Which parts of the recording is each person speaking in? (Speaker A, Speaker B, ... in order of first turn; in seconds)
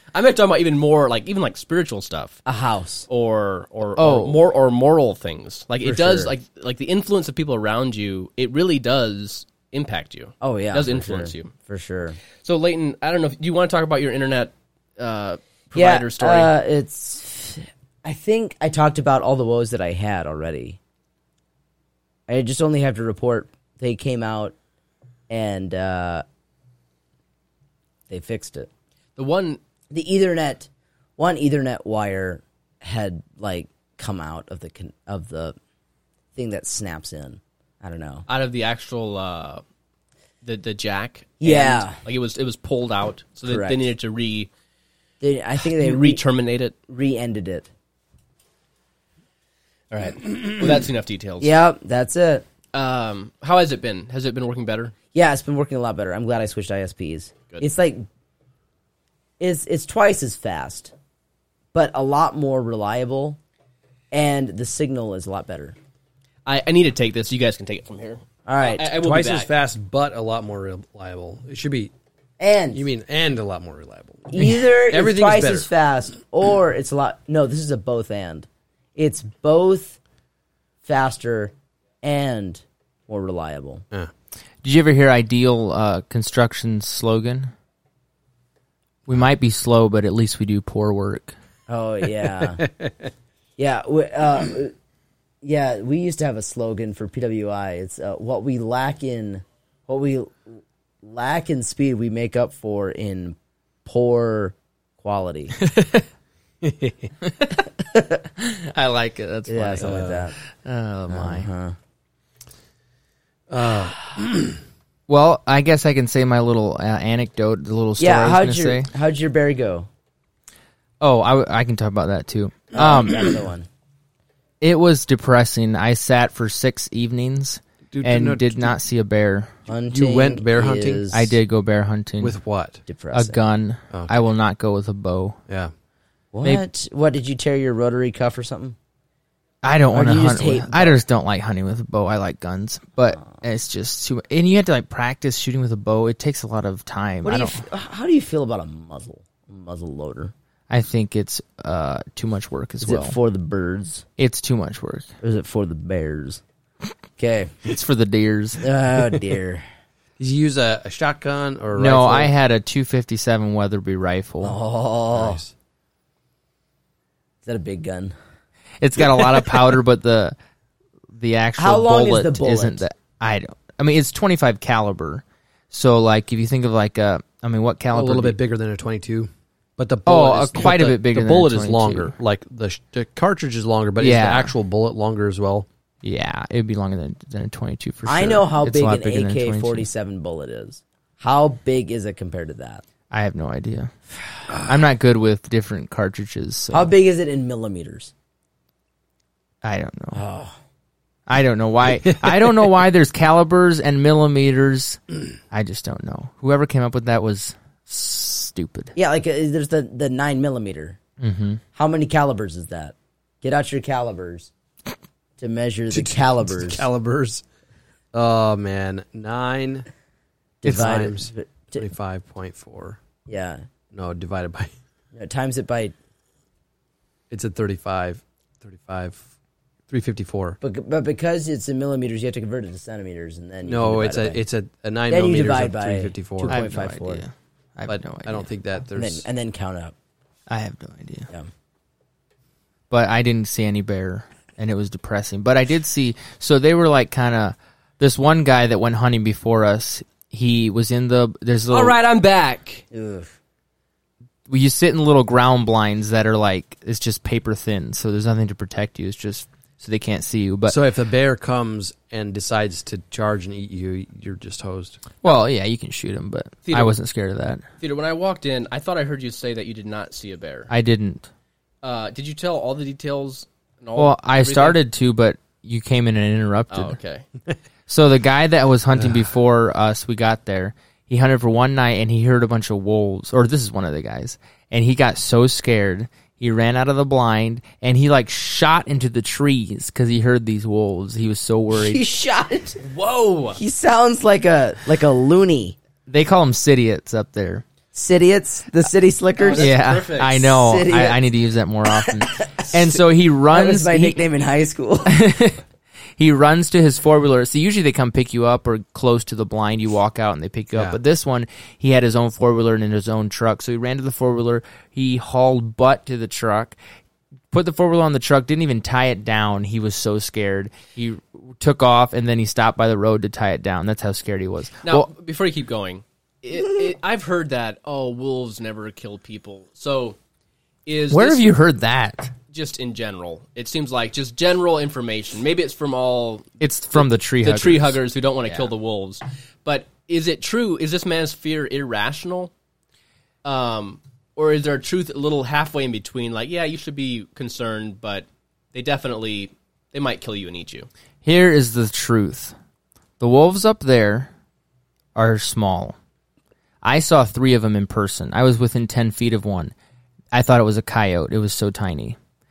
Speaker A: 0.1-2.4, 3.1-11.5, 12.4-16.5, 29.1-29.6, 38.3-39.6, 40.4-44.5, 45.7-46.7, 49.9-51.6, 52.7-54.9, 66.5-69.5, 251.7-252.8, 266.6-267.0, 267.8-270.7, 271.8-274.8, 276.7-277.2, 292.8-293.6, 299.4-300.5, 324.8-330.2, 330.9-331.5, 332.5-342.5, 343.4-350.9
Speaker B: 2.4-3.1, 5.8-6.3, 10.4-12.2, 15.7-20.8, 22.3-24.5, 25.3-26.2, 28.1-28.7, 29.9-35.5, 36.3-38.2, 41.4-42.0, 43.5-43.9, 45.2-46.2, 46.9-47.7, 51.4-52.4, 55.1-58.1, 59.4-60.9, 61.7-63.4, 64.1-65.8, 68.5-68.9, 72.4-72.8, 74.3-80.0, 80.8-83.8, 91.7-92.6, 93.6-94.7, 95.4-105.5, 107.9-108.2, 109.5-110.3, 111.1-111.7, 118.0-119.9, 122.7-123.7, 129.7-131.4, 132.9-133.4, 136.3-138.8, 139.9-141.0, 147.2-150.3, 152.8-154.0, 155.2-156.4, 157.2-157.6, 158.6-159.6, 164.4-165.4, 167.4-168.1, 171.6-172.8, 188.1-192.8, 196.7-198.1, 200.1-200.5, 208.9-211.0, 211.7-214.5, 215.4-216.8, 220.6-221.8, 223.3-223.6, 225.1-225.9, 230.6-234.4, 235.1-237.2, 238.9-239.9, 252.9-253.3, 291.7-292.8, 293.6-295.8, 297.9-299.7, 300.4-301.2, 301.9-302.9, 303.5-305.2
Speaker C: 4.0-4.4, 84.6-87.5, 89.1-91.3, 105.6-106.0, 107.2-107.7, 108.4-111.5, 115.1-118.9, 121.0-123.3, 124.6-129.5, 131.1-132.4, 133.1-135.4, 139.6-147.6, 150.7-153.1, 154.2-155.1, 157.6-158.7, 161.8-164.6, 168.8-170.3, 171.1-178.3, 180.1-182.1, 184.0-184.5, 186.0-189.9, 193.1-193.9, 194.6-196.9, 199.6-200.2, 201.3-208.9, 211.2-211.6, 236.4-238.5, 240.5-241.3, 242.9-251.9, 254.5-260.8, 265.2-267.6, 270.7-271.3, 273.9-276.9, 277.9-292.0, 296.1-297.6, 299.6-304.2, 305.1-305.6, 306.2-316.8, 317.5-325.1, 331.1-332.3, 336.6-338.7, 351.2-352.5, 353.2-354.3, 355.1-355.9, 356.8-359.7, 360.3-362.2
Speaker D: 69.0-71.9, 72.7-75.7, 92.6-93.1, 106.6-107.1, 109.8-110.2, 113.5-114.6, 127.9-128.7, 129.9-131.1, 132.2-132.8, 133.9-134.2, 160.2-162.3, 165.1-165.5, 177.9-185.7, 215.9-217.4, 218.1-219.9, 220.6-223.0, 223.9-224.7, 227.3-229.2, 229.9-230.6, 233.6-236.6, 237.9-239.2, 260.7-265.0, 279.0-279.2, 310.7-311.0